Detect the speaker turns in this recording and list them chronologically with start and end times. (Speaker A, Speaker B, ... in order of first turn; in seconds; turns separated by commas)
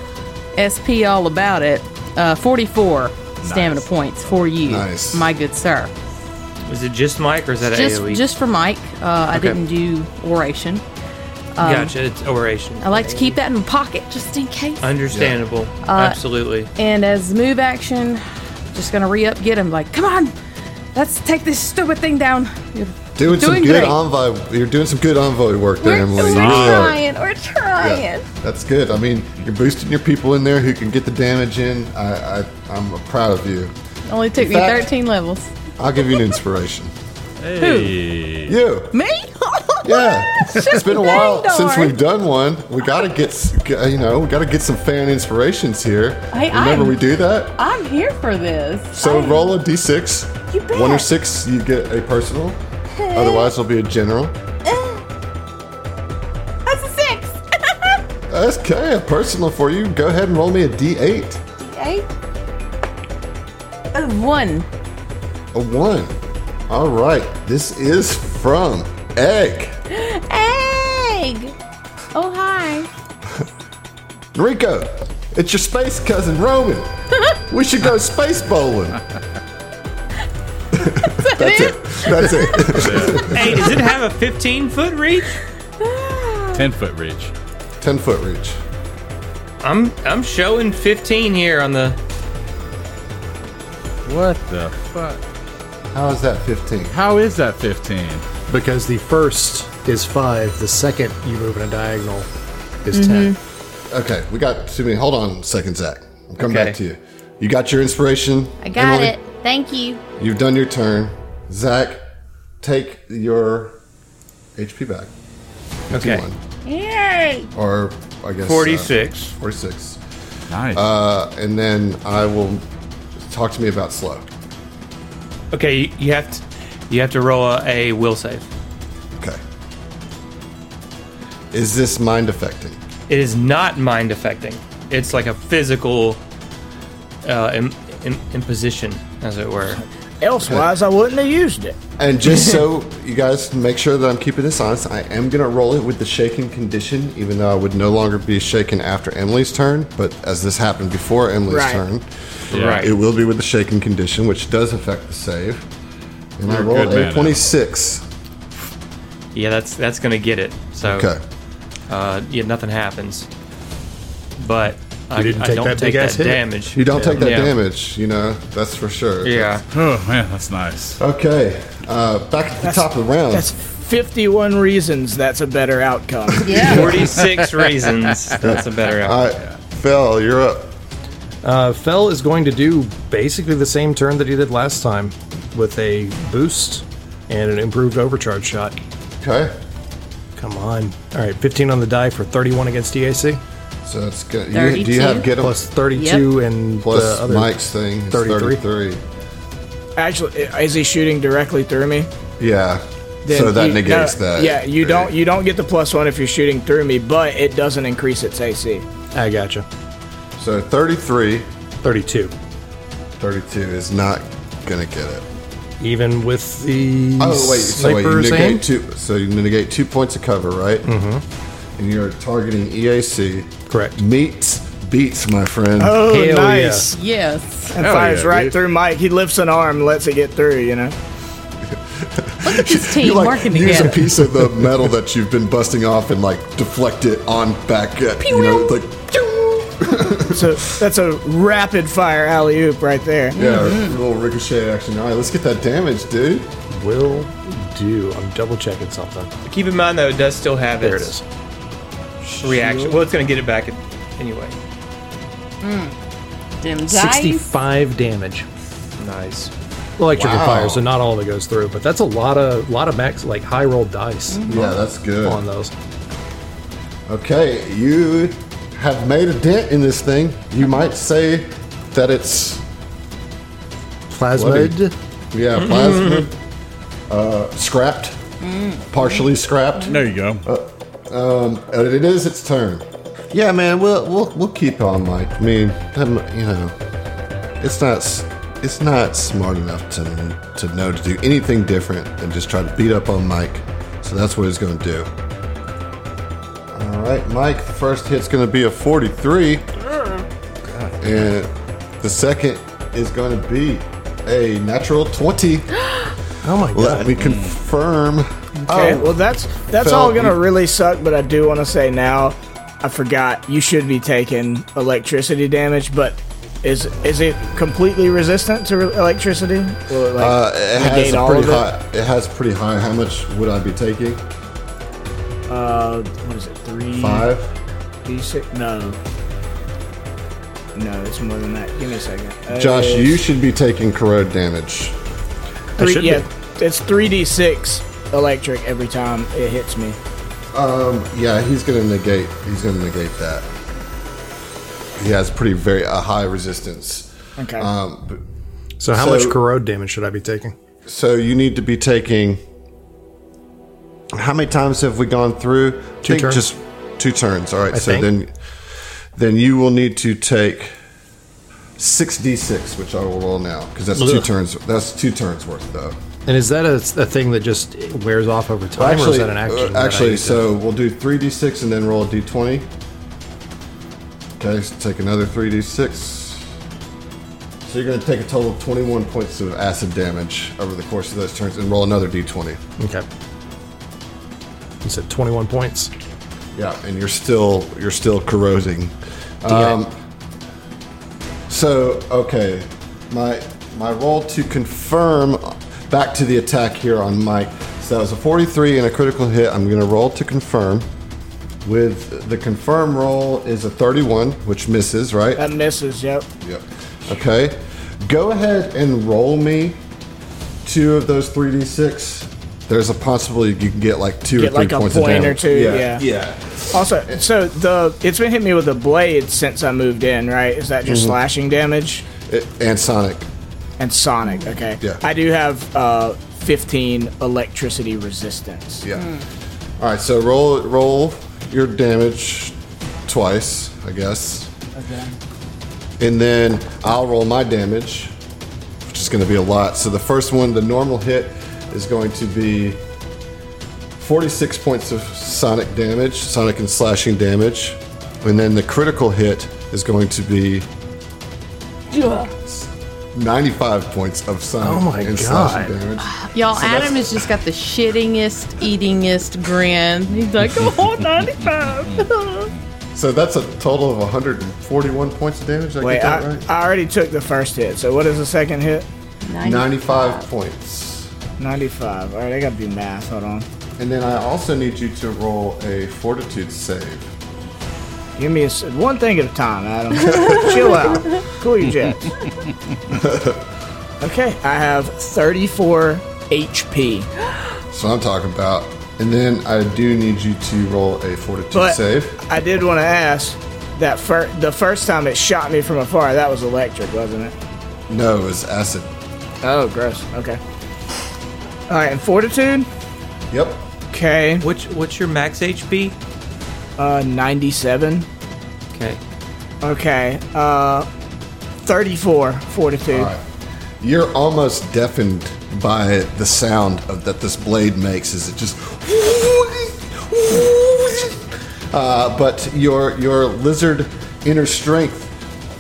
Speaker A: 0.6-5.9, Speaker B: 3.4-3.9, Speaker C: 4.7-5.3, Speaker D: 6.7-8.2, Speaker A: 7.6-10.8, Speaker D: 9.3-9.6, Speaker A: 11.6-11.9, Speaker D: 11.6-13.4, Speaker A: 12.8-14.9, Speaker D: 14.8-16.7, Speaker C: 15.1-15.4, Speaker A: 15.8-16.2, Speaker A: 16.8-20.4, Speaker A: 20.9-24.0, Speaker C: 23.2-27.0, Speaker A: 25.8-28.3, Speaker B: 26.2-26.9, Speaker C: 27.8-33.7, Speaker A: 34.1-36.4, Speaker C: 34.4-34.9, Speaker C: 35.8-36.9, Speaker B: 37.4-38.5, Speaker A: 37.6-38.0, Speaker C: 38.5-38.9, Speaker A: 38.9-42.0, Speaker C: 39.8-47.6, Speaker A: 46.3-47.0, Speaker A: 47.6-49.5, Speaker C: 49.0-52.6, Speaker A: 50.5-51.1, Speaker A: 52.9-53.5, Speaker C: 53.1-54.4, Speaker A: 54.6-55.0, Speaker A: 56.7-58.0, Speaker C: 58.3-61.4, Speaker A: 61.6-62.1, Speaker A: 63.9-64.7, Speaker C: 65.5-66.2, Speaker C: 66.7-69.8, Speaker A: 69.9-71.5, Speaker A: 72.1-72.9, Speaker C: 74.3-79.0, Speaker C: 80.7-83.7, Speaker A: 80.9-82.8, Speaker B: 82.7-83.4, Speaker D: 83.2-85.4, Speaker A: 85.8-86.6, Speaker B: 86.5-87.3, Speaker C: 87.8-88.6, Speaker D: 89.6-92.0, Speaker B: 94.0-95.2, Speaker C: 95.9-97.0, Speaker B: 96.9-98.3, Speaker E: 98.5-102.3, Speaker E: 102.8-103.4, Speaker A: 102.9-103.4, Speaker C: 103.9-109.2, Speaker D: 106.4-106.8, Speaker A: 108.6-110.0, Speaker C: 110.2-112.0, Speaker C: 112.6-113.8, Speaker C: 114.6-115.1, Speaker D: 115.9-116.3, Speaker C: 115.9-116.4, Speaker A: 116.7-117.5, Speaker C: 117.5-120.0, Speaker D: 118.5-119.3, Speaker B: 120.5-120.8, Speaker C: 120.7-122.7, Speaker C: 123.2-124.3, Speaker D: 125.5-128.5, Speaker C: 129.1-129.4, Speaker C: 131.5-132.8, Speaker D: 133.1-136.2, Speaker D: 137.2-139.8, Speaker F: 139.8-141.8, Speaker C: 140.4-140.7, Speaker C: 142.0-155.7, Speaker F: 151.5-151.8, Speaker B: 152.5-152.9, Speaker D: 152.5-152.9, Speaker C: 156.4-158.1, Speaker B: 156.5-157.4, Speaker D: 159.3-161.1, Speaker C: 160.8-161.2, Speaker D: 161.9-163.3, Speaker D: 164.4-167.5, Speaker E: 165.1-167.3, Speaker C: 166.8-169.6, Speaker D: 169.2-169.6, Speaker B: 169.7-171.0, Speaker C: 171.0-173.5, Speaker F: 172.6-177.0, Speaker A: 176.4-176.8, Speaker C: 176.4-176.9, Speaker D: 176.6-179.2, Speaker B: 177.2-177.6, Speaker C: 178.4-180.7, Speaker E: 181.4-188.8, Speaker C: 189.2-189.5, Speaker E: 190.4-193.4, Speaker C: 193.8-195.6, Speaker A: 194.5-195.3, Speaker E: 195.4-197.6, Speaker A: 195.9-196.3, Speaker C: 196.8-199.0, Speaker E: 198.1-198.6, Speaker F: 200.0-202.1, Speaker C: 202.4-205.1, Speaker F: 203.3-208.9, Speaker E: 209.1-209.7, Speaker C: 210.4-211.5, Speaker E: 211.8-212.3, Speaker C: 213.2-215.3, Speaker E: 215.8-218.6, Speaker C: 217.2-220.9, Speaker E: 220.9-221.2, Speaker C: 221.8-226.0, Speaker E: 223.7-224.0, Speaker F: 225.8-226.9, Speaker E: 226.0-226.9, Speaker A: 226.8-227.8, Speaker F: 227.7-231.0, Speaker B: 227.8-228.6, Speaker C: 231.7-240.6, Speaker A: 232.4-234.0, Speaker A: 238.2-238.8, Speaker F: 240.3-243.4, Speaker A: 243.3-244.0, Speaker C: 243.3-246.5, Speaker E: 246.7-249.3, Speaker D: 249.4-251.2, Speaker E: 250.8-251.2, Speaker D: 252.4-254.6, Speaker A: 255.6-255.9, Speaker A: 256.6-257.5, Speaker E: 256.9-258.5, Speaker D: 259.0-259.5, Speaker E: 260.0-264.7, Speaker C: 260.1-260.9, Speaker A: 264.3-264.7, Speaker C: 264.5-265.4, Speaker E: 265.2-265.7, Speaker C: 267.1-272.6, Speaker E: 274.1-274.9, Speaker C: 274.3-274.8, Speaker C: 275.3-276.4, Speaker D: 275.6-276.3, Speaker C: 277.1-278.2, Speaker A: 278.4-279.2, Speaker C: 278.9-286.8, Speaker B: 279.9-280.4, Speaker C: 287.6-295.1, Speaker C: 296.7-299.7, Speaker B: 300.7-301.1, Speaker C: 301.0-305.9, Speaker E: 306.4-307.1, Speaker C: 306.7-309.1, Speaker B: 307.2-307.6, Speaker F: 308.6-321.6, Speaker C: 309.8-310.4, Speaker C: 320.2-324.2, Speaker F: 325.5-327.3, Speaker C: 327.0-327.5, Speaker F: 328.1-329.0, Speaker F: 330.8-333.2, Speaker C: 332.5-335.0, Speaker E: 335.8-336.3, Speaker F: 335.8-340.0, Speaker C: 340.5-343.5, Speaker C: 345.0-348.2, Speaker F: 347.4-347.7, Speaker E: 348.8-350.6, Speaker C: 348.9-349.4, Speaker C: 350.9-352.4, Speaker C: 354.1-358.3, Speaker E: 356.0-356.4, Speaker E: 357.7-358.1, Speaker C: 359.1-360.7, Speaker C: 361.8-366.0, Speaker E: 363.9-364.3, Speaker E: 366.3-370.4, Speaker C: 368.8-372.7, Speaker C: 374.4-376.5, Speaker C: 377.6-382.6, Speaker E: 382.8-383.1, Speaker E: 384.8-385.9, Speaker C: 386.5-389.9, Speaker E: 389.5-389.8, Speaker C: 391.5-400.9, Speaker C: 401.6-405.4, Speaker F: 405.4-406.3, Speaker C: 406.4-409.8, Speaker C: 410.6-417.2, Speaker F: 414.4-416.1, Speaker F: 416.7-422.1, Speaker C: 420.9-421.2, Speaker C: 422.3-423.3, Speaker F: 423.8-428.9, Speaker C: 428.8-429.1, Speaker A: 428.9-429.2, Speaker C: 429.8-434.5, Speaker F: 434.8-435.2, Speaker C: 436.0-438.1, Speaker C: 438.8-442.8, Speaker C: 444.0-450.7, Speaker A: 451.9-452.3, Speaker C: 452.3-457.2, Speaker E: 454.6-455.7, Speaker A: 456.0-462.5, Speaker C: 462.9-466.5, Speaker F: 465.8-468.9, Speaker A: 469.2-470.3, Speaker C: 469.4-471.1, Speaker F: 471.4-473.5, Speaker C: 473.8-477.1, Speaker F: 478.2-482.2, Speaker C: 482.9-483.4, Speaker F: 484.0-487.1, Speaker C: 487.7-492.2, Speaker F: 491.5-497.4, Speaker C: 497.9-498.9, Speaker F: 499.4-500.4, Speaker F: 501.7-502.7, Speaker C: 503.3-503.6, Speaker F: 503.9-504.5, Speaker D: 504.4-506.0, Speaker F: 506.8-508.1, Speaker D: 508.7-509.0, Speaker F: 509.6-510.9, Speaker F: 511.6-513.1, Speaker C: 512.9-513.2, Speaker C: 513.8-525.1